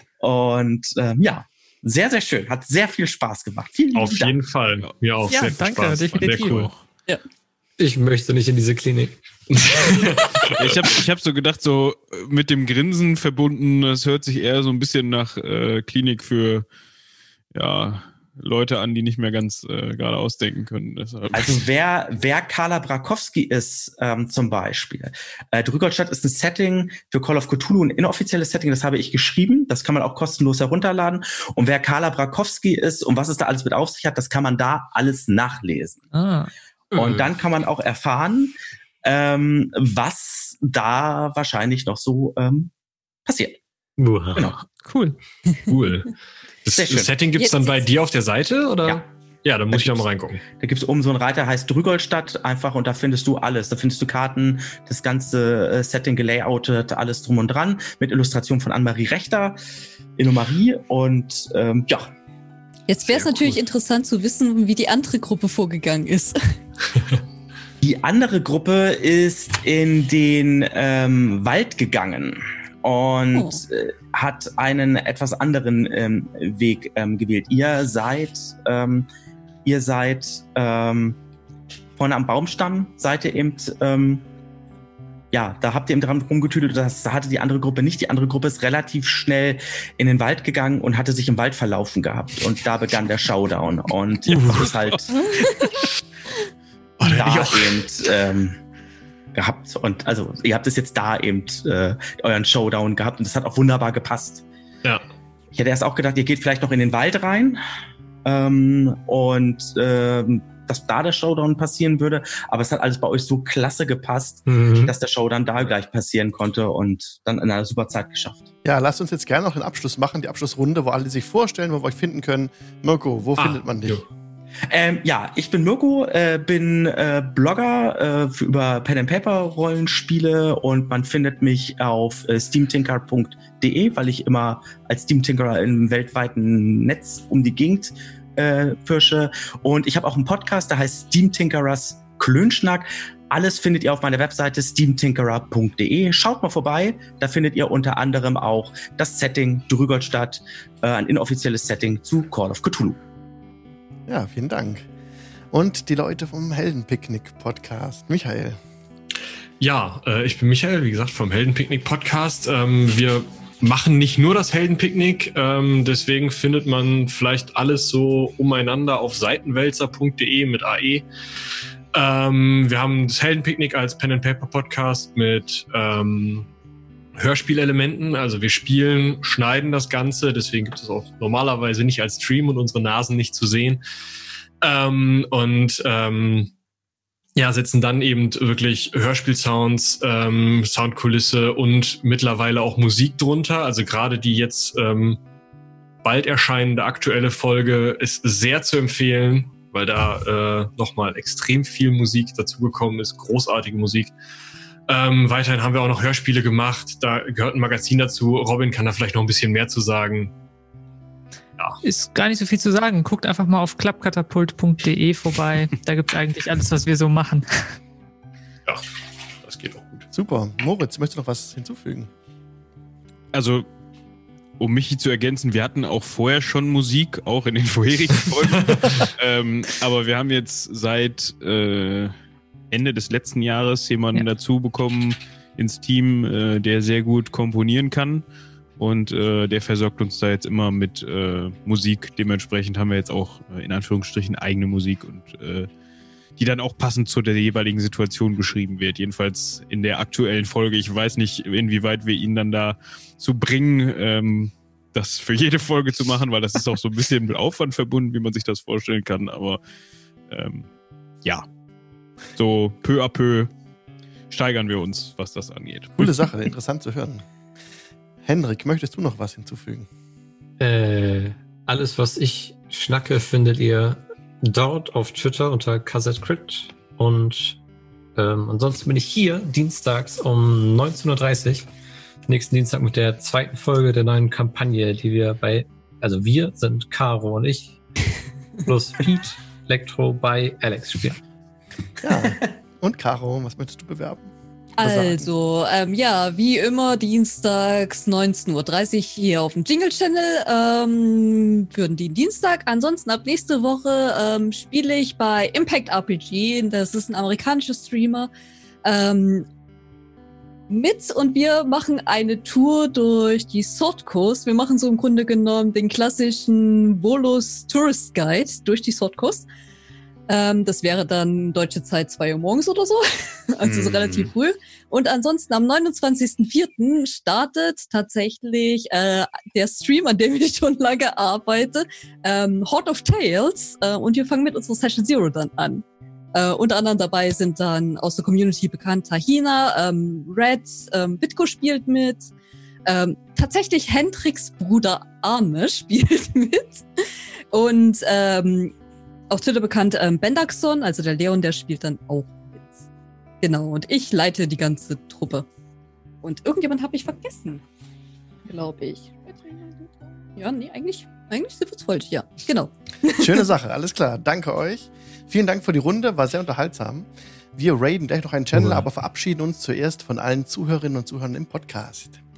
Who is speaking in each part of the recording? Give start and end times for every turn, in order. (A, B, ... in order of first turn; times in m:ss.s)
0:00.2-0:04.4 A
0:03.9-0:06.7 B
0:05.3-0:06.7 C
0:06.3-0:06.8 D
0:07.8-0:09.7 E
0:09.5-0:10.8 B
0:10.6-0:16.7 D
0:17.5-0:21.6 D
0:21.3-0:36.0 A
0:36.1-0:36.5 C
0:36.9-0:42.7 A
0:37.0-0:37.3 B
0:43.3-0:43.6 A
0:44.0-0:44.5 E
0:44.3-0:44.6 A
0:44.8-0:45.2 C
0:45.7-0:46.1 B
0:46.6-0:50.4 B
0:46.7-0:47.1 A
0:47.3-0:47.8 F
0:49.7-0:59.6 A
1:00.2-1:02.1 A
1:02.9-1:06.6 F
1:03.1-1:03.4 A
1:07.8-1:19.1 A
1:13.4-1:13.6 F
1:19.6-1:21.2 A
1:22.0-1:24.2 A
1:25.3-1:35.1 A
1:34.3-1:34.8 B
1:35.1-1:35.5 F
1:37.0-1:37.8 B
1:37.0-1:38.6 A
1:39.3-1:44.4 A
1:45.5-1:47.6 A
1:48.2-1:58.5 A
1:54.5-1:55.0 E
1:58.6-2:04.0 G
2:03.4-2:04.1 B
2:04.7-2:33.0 A
2:34.1-2:34.9 G
2:35.5-2:38.6 G
2:39.6-2:51.1 B
2:51.9-2:56.5 B
2:57.2-3:03.8 B
3:04.6-3:06.5 B
3:07.4-3:15.2 B
3:16.0-3:24.1 B
3:24.9-3:30.3 B
3:31.8-3:37.8 C
3:39.4-3:40.1 B
3:40.1-3:42.1 G
3:43.3-3:43.7 D
3:44.6-3:52.2 D
3:48.7-3:49.0 B
3:52.7-3:58.2 D
3:58.8-4:05.7 D
4:06.4-4:19.6 D
4:20.3-4:20.7 D
4:22.3-4:23.5 D
4:24.3-4:25.9 D
4:26.0-4:27.2 G
4:28.2-4:29.9 G
4:30.6-4:37.6 E
4:38.2-4:41.7 E
4:42.3-4:47.8 E
4:48.7-4:51.2 E
4:52.0-4:55.3 G
4:54.8-5:08.3 F
5:08.8-5:09.5 F
5:10.7-5:19.5 F
5:20.3-5:42.3 F
5:23.7-5:24.3 B
5:42.9-5:46.9 F
5:47.5-5:48.7 F
5:49.3-5:52.8 F
5:53.4-5:55.5 F
5:56.2-5:57.6 F
5:58.5-6:03.4 F
6:03.2-6:12.2 G